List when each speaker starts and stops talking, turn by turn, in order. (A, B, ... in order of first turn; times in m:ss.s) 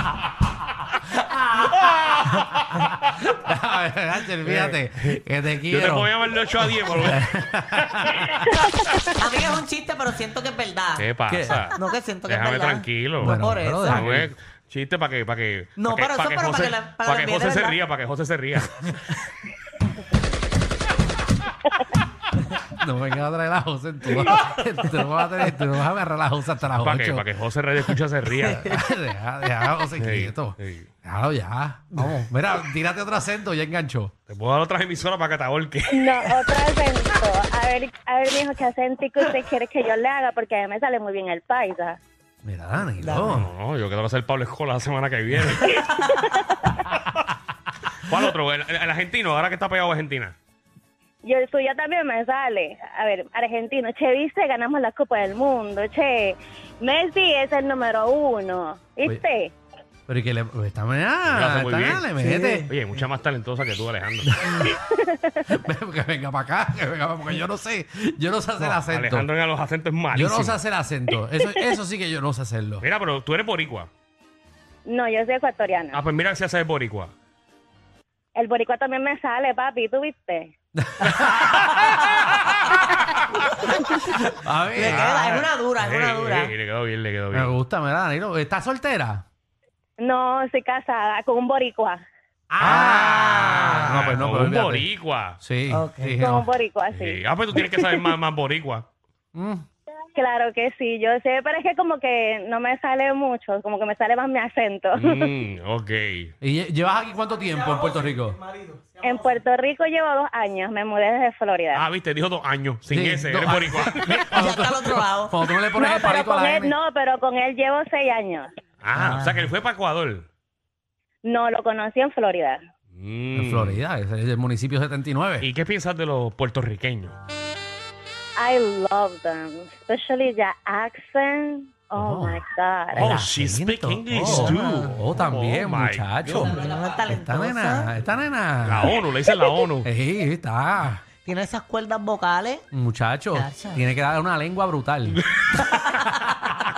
0:01.1-0:09.0 A
0:01.8-0:02.9 B
0:04.4-0:05.2 B
0:05.7-0:08.4 B
0:09.2-0:14.1 C
0:11.0-0:19.2 B
0:11.3-0:11.7 A
0:13.2-0:14.3 A
0:15.8-0:17.8 C
0:22.7-0:27.2 A
0:26.8-0:28.8 B
0:28.4-0:34.1 A
0:30.0-0:30.9 B
0:34.3-0:36.3 B
0:35.9-0:42.0 D
0:42.4-0:43.5 A
0:42.9-0:43.4 C
0:43.2-0:45.9 B
0:45.8-0:46.8 D
0:48.0-0:50.3 B
0:51.2-0:59.5 D
1:00.1-1:02.7 A
1:01.2-1:02.1 B
1:02.2-1:02.6 C
1:02.7-1:04.3 B
1:04.2-1:04.7 A
1:04.5-1:05.4 D
1:05.4-1:09.3 A
1:08.6-1:10.6 B
1:10.1-1:12.8 A
1:12.8-1:13.9 B
1:14.9-1:16.0 D
1:15.9-1:17.1 B
1:18.4-1:20.5 D
1:20.8-1:22.4 A
1:21.1-1:22.2 B
1:23.6-1:25.2 A
1:24.8-1:26.5 C
1:24.8-1:27.5 B
1:27.3-1:29.2 A
1:30.0-1:32.0 D
1:32.5-1:34.1 C
1:32.6-1:34.9 A
1:32.6-1:35.4 B
1:35.4-1:36.5 A
1:35.7-1:36.1 C
1:36.2-1:37.9 D
1:36.9-1:38.9 B
1:39.4-1:39.6 A
1:40.2-1:45.3 D
1:44.9-1:46.3 B
1:46.4-1:48.4 A
1:49.0-1:51.8 D
1:51.7-1:54.3 B
1:52.9-1:56.8 A
1:54.1-1:55.5 C
1:55.8-1:58.5 D
1:58.8-2:00.3 B
1:59.0-1:59.5 C
2:01.2-2:02.6 D
2:02.9-2:03.8 B
2:03.3-2:05.5 A
2:05.4-2:07.2 B
2:08.4-2:13.2 D
2:12.0-2:12.4 A
2:12.9-2:18.9 A
2:12.9-2:16.6 B
2:14.2-2:14.9 C
2:16.4-2:17.9 C
2:18.6-2:19.9 B
2:19.8-2:21.0 A
2:21.2-2:22.7 C
2:22.7-2:25.2 A
2:23.3-2:23.8 C
2:25.5-2:26.3 C